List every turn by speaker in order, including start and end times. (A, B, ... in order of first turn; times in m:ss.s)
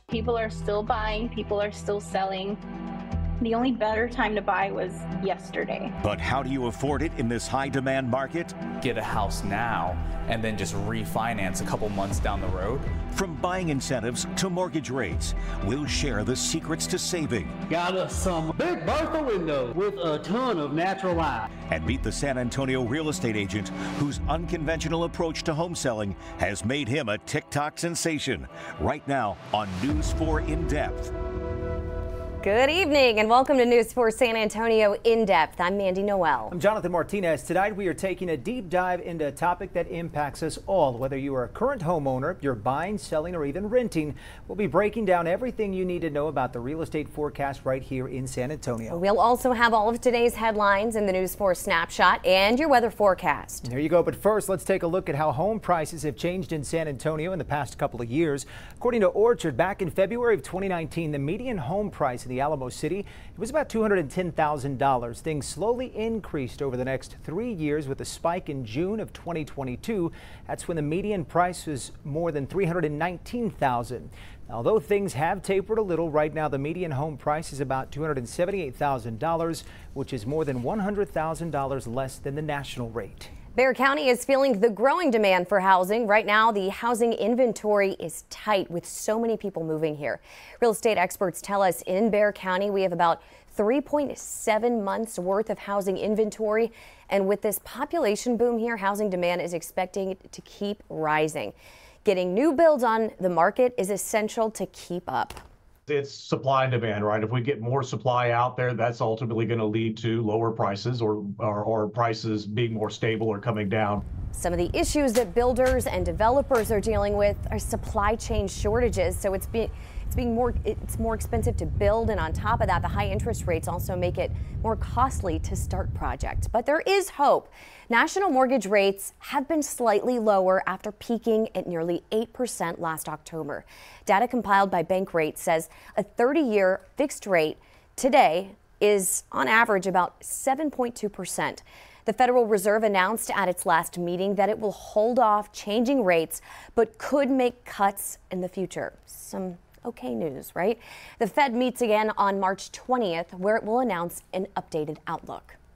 0:00.1-0:02.6 A
0:03.4-0:05.9 A
0:06.0-0:08.6 B
0:08.8-0:12.9 C
0:13.1-0:17.6 B
0:17.7-0:21.5 D
0:21.7-0:31.1 B
0:32.4-0:36.5 E
0:36.5-0:49.0 F
0:48.9-0:53.7 E
0:53.6-1:23.3 F
1:23.5-1:41.5 E
1:42.0-1:45.4 E
1:45.9-1:54.0 G
1:54.3-2:35.6 E